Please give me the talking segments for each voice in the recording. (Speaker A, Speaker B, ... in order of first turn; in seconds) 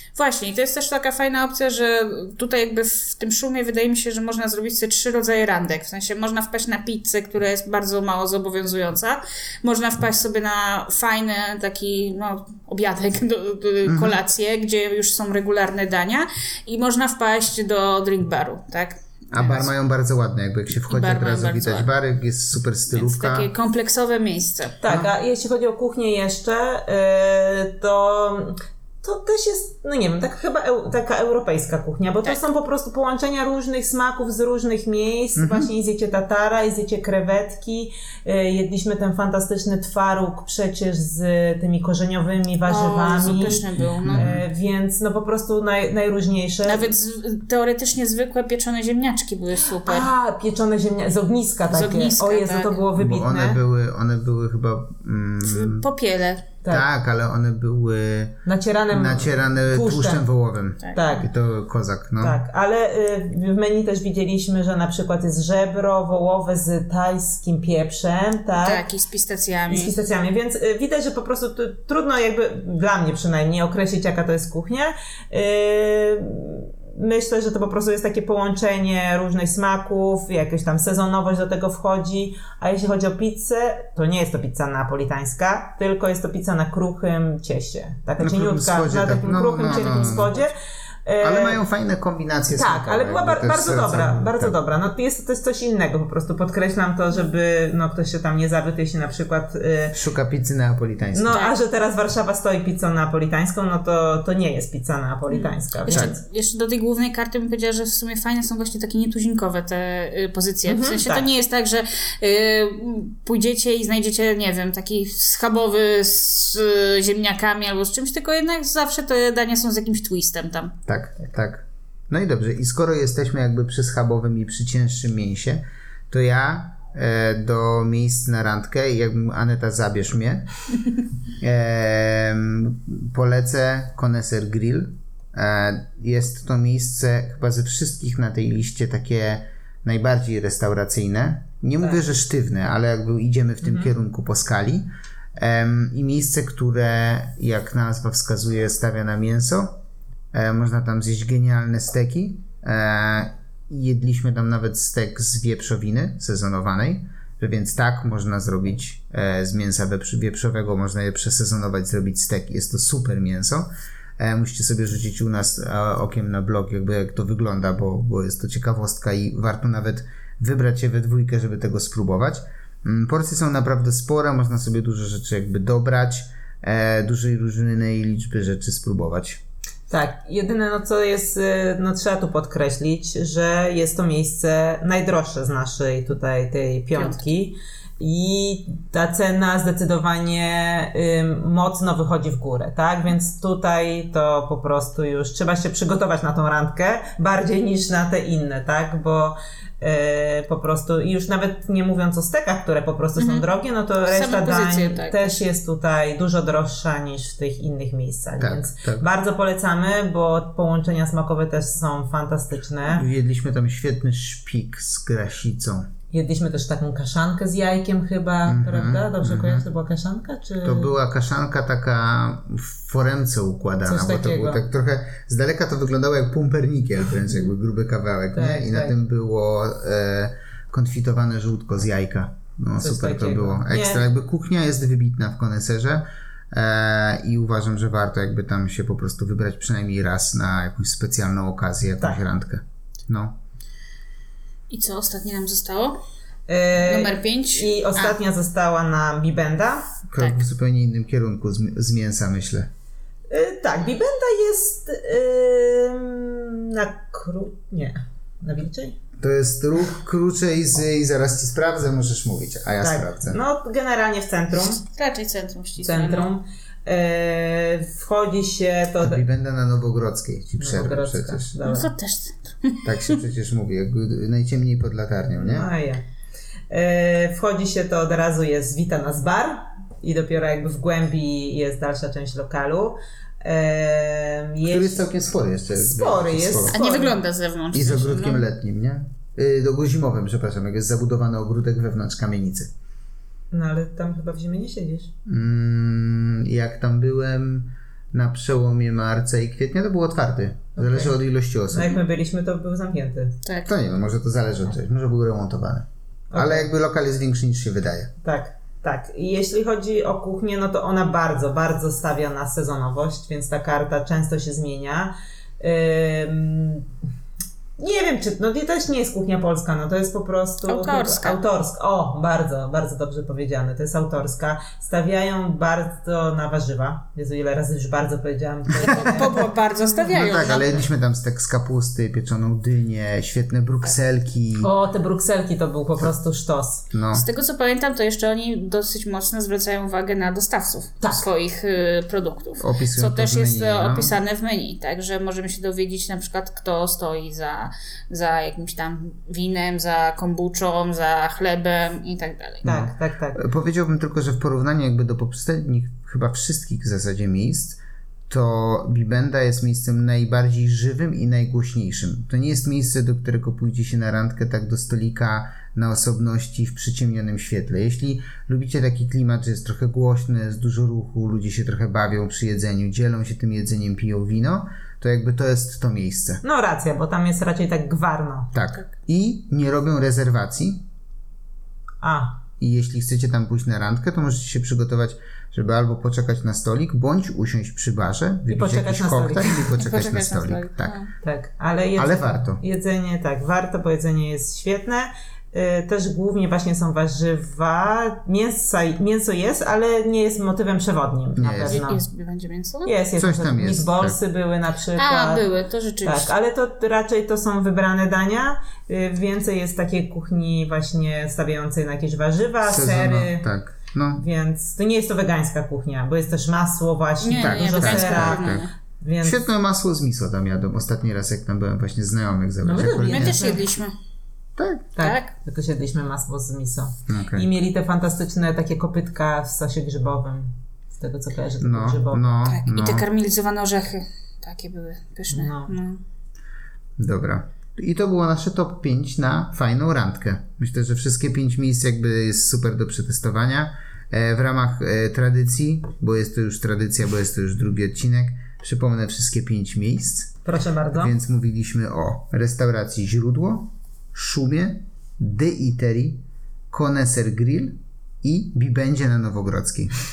Speaker A: 0.1-19.7, 20.9-21.9, 22.9-24.8, 42.6-44.3, 46.6-50.1, 51.7-52.8, 55.4-56.5, 68.6-69.9, 105.3-120.7, 186.9-187.3, 203.2-203.5, 204.0-205.4, 244.7-246.0, 246.8-248.2, 250.2-250.4, 264.9-266.3, 271.6-273.2, 286.7-288.4, 303.4-303.7, 320.7-321.4, 328.7-330.8, 337.1-352.7, 389.8-391.1, 401.6-402.9, 404.9-406.3, 417.2-418.7, 422.9-423.9, 425.0-425.3, 432.4-436.0
Speaker B: 13.8-14.2, 19.3-23.5, 35.4-35.7, 44.0-44.4, 52.9-55.9, 56.7-58.4, 58.9-62.4, 88.2-90.3, 91.2-94.6, 99.9-101.4, 120.9-130.5, 131.4-149.8, 150.3-179.4, 208.4-209.0, 212.9-215.9, 218.4-219.7, 220.6-243.3, 250.1-252.7, 259.2-263.4, 269.0-271.5, 272.8-275.7, 284.6-286.8, 287.7-292.7, 295.3-302.0, 303.6-308.1, 330.1-334.7, 336.9-337.2, 342.6-344.1, 352.6-376.4, 378.5-380.8, 382.6-390.9, 391.9-392.6, 401.4-401.8, 403.1-404.2, 412.6-414.2, 417.4-418.6, 419.2-423.5, 424.6-424.9, 427.1-427.5, 431.6-433.1, 437.0-450.4, 451.0-459.9
Speaker C: 24.8-46.9, 49.8-53.6, 58.4-60.3, 60.9-61.3, 62.2-68.8, 69.7-90.5, 91.0-91.6, 92.5-100.0, 101.1-106.2, 110.6-111.3, 143.6-143.9, 179.9-213.1, 216.1-220.9, 223.8-224.6, 228.3-228.9, 232.8-234.1, 246.5-249.9, 253.3-258.9, 262.8-264.8, 265.8-269.2, 270.6-271.9, 275.3-276.0, 276.7-285.1, 285.8-287.2, 293.5-295.1, 300.8-301.1, 301.7-303.3, 306.3-306.7, 308.2-316.9, 317.8-329.4, 334.6-336.9, 341.0-341.3, 352.6-353.4, 376.4-378.5, 382.0-382.4, 388.5-389.7, 391.2-402.0, 402.8-405.4, 406.0-413.5, 414.1-419.5, 422.6-423.6, 424.9-432.4, 435.3-435.7, 450.4-451.1